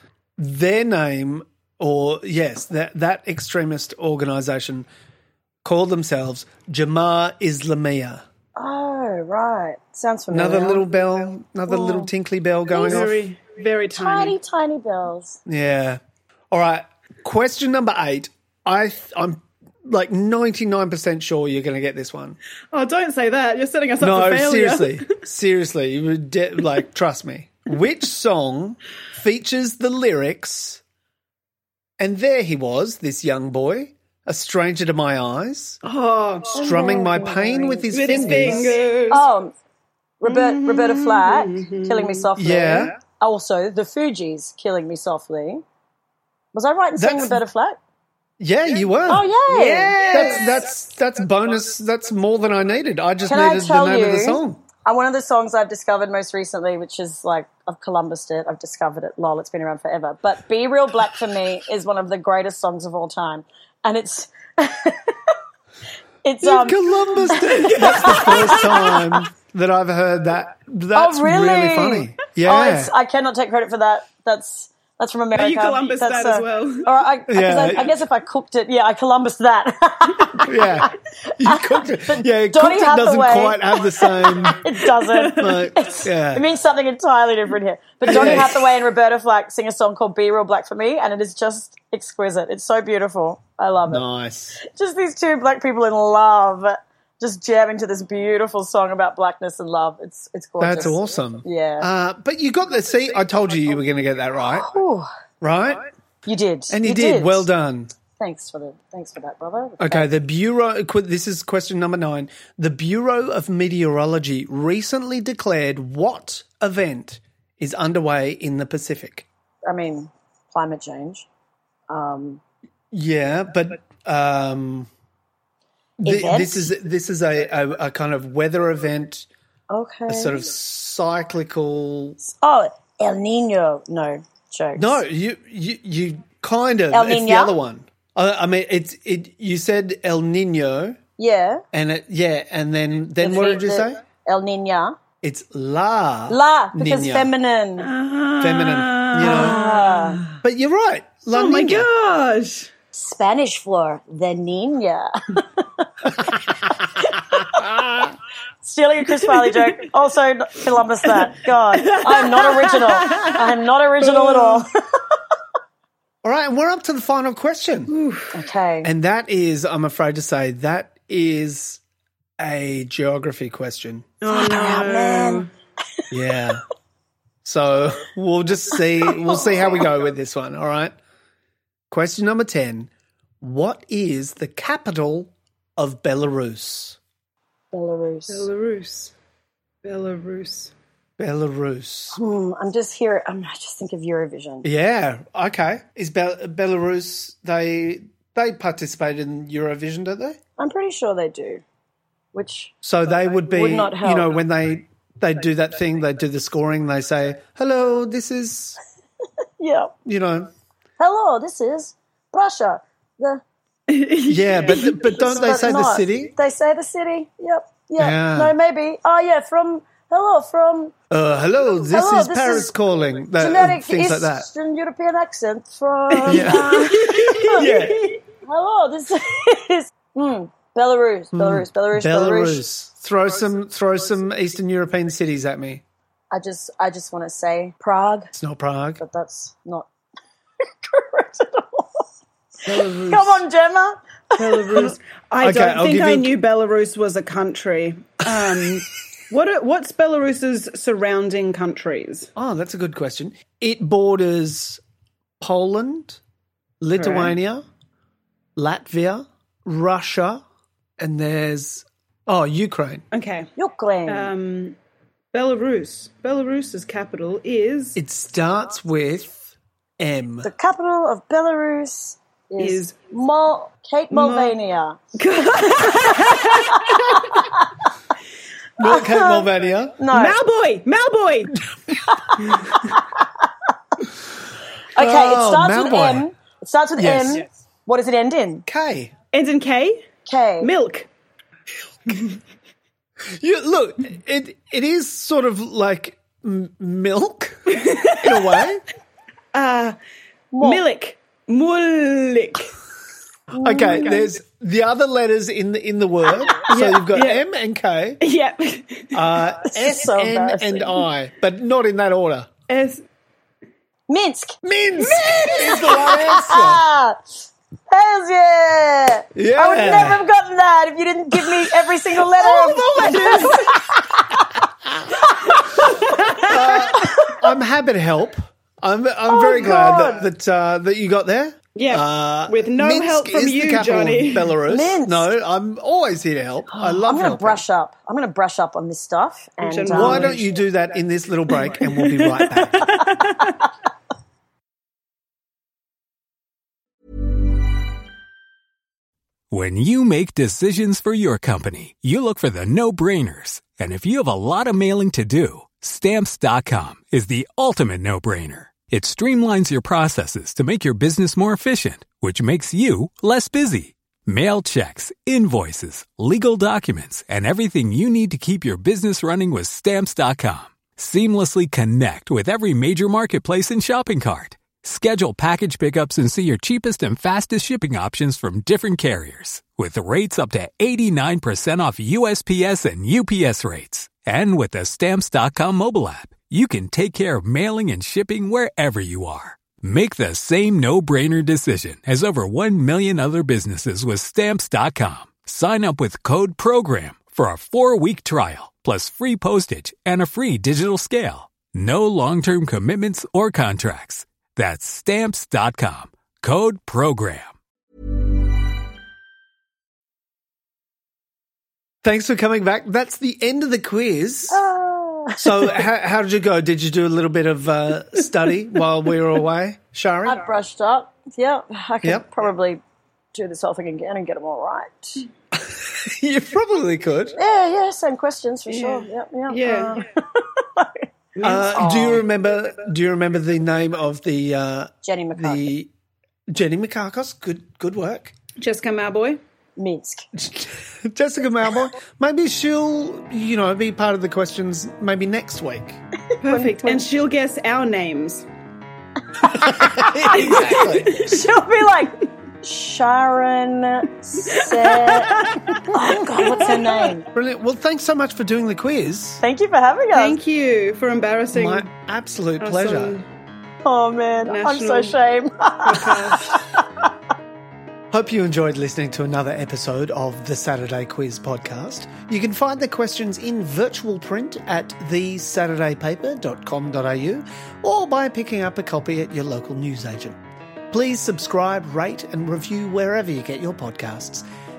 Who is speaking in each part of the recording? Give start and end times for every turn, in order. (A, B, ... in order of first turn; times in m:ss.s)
0:00.4-0:04.9 A
0:05.6-0:08.2 A
0:08.6-0:10.9 B
0:10.3-0:13.2 A
0:11.7-0:12.1 B
0:12.7-0:14.4 C
0:13.9-0:15.4 B
0:15.5-0:16.0 A
0:16.5-0:22.4 A
0:22.7-0:25.1 C
0:24.0-0:30.8 A
0:32.0-0:35.8 A
0:35.8-0:36.6 C
0:36.5-0:38.8 A
0:36.6-0:39.5 B
0:37.9-0:39.3 C
0:40.2-0:45.6 B
0:40.2-0:42.3 C
0:42.4-0:43.0 A
0:46.5-0:47.8 B
0:47.0-0:47.4 A
0:48.4-0:54.6 A
0:49.1-0:50.3 B
0:49.5-0:50.4 C
0:53.3-1:05.3 B
1:06.2-1:09.2 B
1:06.4-1:12.9 A
1:08.0-1:08.6 C
1:10.9-1:20.9 B
1:15.3-1:17.0 C
1:17.3-1:18.0 A
1:20.5-1:24.6 A
1:21.4-1:34.0 B
1:25.0-1:25.5 C
1:25.3-1:26.4 A
1:28.0-1:28.6 A
1:28.1-1:28.5 C
1:33.9-1:34.6 A
1:34.6-1:41.9 B
1:40.6-1:44.7 A
1:44.5-1:45.1 B
1:45.4-1:45.9 A
1:46.2-1:47.5 B
1:46.7-1:47.9 A
1:48.2-1:50.1 B
1:49.8-1:59.3 A
1:59.7-2:01.3 B
2:01.9-2:02.4 B
2:02.9-2:04.9 A
2:06.0-2:06.7 B
2:06.0-2:09.3 A
2:09.7-2:10.4 B
2:10.1-2:12.2 A
2:12.2-2:15.0 B
2:14.8-2:21.0 A
2:16.9-2:17.6 B
2:21.2-2:21.6 B
2:21.7-2:24.0 A
2:23.2-2:25.0 B
2:25.2-2:27.3 A
2:26.3-2:27.9 B
2:27.8-2:30.4 C
2:28.4-2:29.6 A
2:29.2-2:30.2 B
2:30.4-2:31.9 A
2:31.3-2:32.7 C
2:32.9-2:35.4 B
2:38.6-2:44.7 B
2:41.1-2:44.6 C
2:46.2-2:47.9 A
2:47.9-2:48.4 C
2:48.3-2:48.9 B
2:48.8-2:51.8 A
2:52.4-2:54.2 A
2:54.2-2:55.5 C
2:54.3-2:55.5 B
2:56.1-2:56.6 A
2:57.4-3:01.0 A
3:01.9-3:02.9 A
3:03.4-3:07.0 A
3:07.7-3:08.5 B
3:08.3-3:09.1 C
3:09.8-3:10.7 C
3:11.2-3:12.2 A
3:12.1-3:14.7 B
3:14.6-3:20.4 A
3:20.6-3:21.6 B
3:22.3-3:22.7 B
3:22.8-3:28.8 A
3:23.5-3:24.3 B
3:29.6-3:29.9 B
3:30.0-3:30.5 A
3:31.0-3:33.4 B
3:33.9-3:35.2 C
3:34.3-3:36.3 A
3:35.1-3:40.9 B
3:38.0-3:38.6 A
3:41.1-3:44.5 A
3:41.9-3:42.7 B
3:43.4-3:47.7 B
3:46.1-3:48.1 C
3:46.3-3:48.2 A
3:48.4-3:52.7 B
3:51.3-3:55.8 A
3:56.3-3:58.3 B
3:58.3-3:59.0 A
3:59.0-3:59.9 B
4:00.8-4:02.1 B
4:02.7-4:03.1 A
4:02.8-4:03.4 C
4:03.0-4:04.6 B
4:04.4-4:12.3 C
4:05.4-4:06.3 A
4:12.4-4:14.8 A
4:15.4-4:16.2 A
4:16.8-4:17.6 A
4:17.0-4:17.3 C
4:18.6-4:20.4 A
4:21.0-4:23.0 A
4:23.1-4:23.5 C
4:23.6-4:24.3 B
4:24.1-4:24.8 C
4:25.3-4:28.0 C
4:28.0-4:30.5 A
4:30.4-4:35.0 B
4:32.6-4:33.0 C
4:34.1-4:34.6 C
4:35.2-4:37.4 C
4:36.5-4:37.8 B
4:38.8-4:40.0 A
4:38.9-4:39.5 B
4:40.0-4:40.4 B
4:40.1-4:41.6 C
4:42.2-4:43.2 B
4:42.4-4:42.8 C
4:45.0-4:48.7 B
4:45.0-4:46.3 A
4:47.0-4:47.5 A
4:48.7-4:49.1 A
4:49.3-4:50.1 C
4:50.3-4:50.7 B
4:50.6-4:51.1 C
4:53.3-4:58.8 A
4:57.7-4:58.6 C
4:59.5-5:00.0 C
5:00.5-5:00.8 B
5:00.6-5:02.7 C
5:03.5-5:04.2 B
5:03.6-5:08.2 A
5:03.7-5:04.2 C
5:06.7-5:07.4 C
5:08.2-5:09.2 C
5:09.1-5:12.5 A
5:09.7-5:10.9 B
5:12.7-5:13.0 C
5:14.1-5:14.6 B
5:14.6-5:16.8 A
5:15.4-5:17.2 B
5:17.9-5:24.4 B
5:19.4-5:20.3 A
5:21.4-5:23.8 A
5:22.9-5:23.7 C
5:25.6-5:27.1 C
5:26.4-5:37.6 A
5:29.3-5:30.3 B
5:31.8-5:34.6 C
5:34.7-5:35.3 B
5:36.7-5:40.3 B
5:39.6-5:40.5 C
5:39.9-5:43.0 A
5:41.7-5:43.6 C
5:49.5-6:47.5 D
6:52.0-6:54.6 A
6:54.5-6:55.8 B
6:55.4-7:00.5 A
7:00.2-7:02.8 B
7:03.3-7:05.3 B
7:05.5-7:07.4 A
7:07.4-7:12.2 B
7:08.7-7:10.0 C
7:11.4-7:12.2 C
7:11.4-7:15.9 A
7:15.0-7:15.7 B
7:16.5-7:18.3 A
7:18.6-7:19.4 C
7:19.8-7:20.3 B
7:20.4-7:26.0 A
7:26.4-7:27.1 B
7:26.4-7:28.5 C
7:29.5-7:31.2 A
7:29.7-7:37.3 B
7:30.2-7:31.5 C
7:34.5-7:37.1 C
7:37.3-7:39.4 A
7:39.4-7:40.4 B
7:40.1-7:41.9 C
7:41.5-7:43.2 A
7:42.6-7:43.3 C
7:43.8-7:46.8 B
7:44.5-7:45.2 C
7:45.8-7:46.6 C
7:48.1-8:00.4 A
8:00.9-8:04.4 A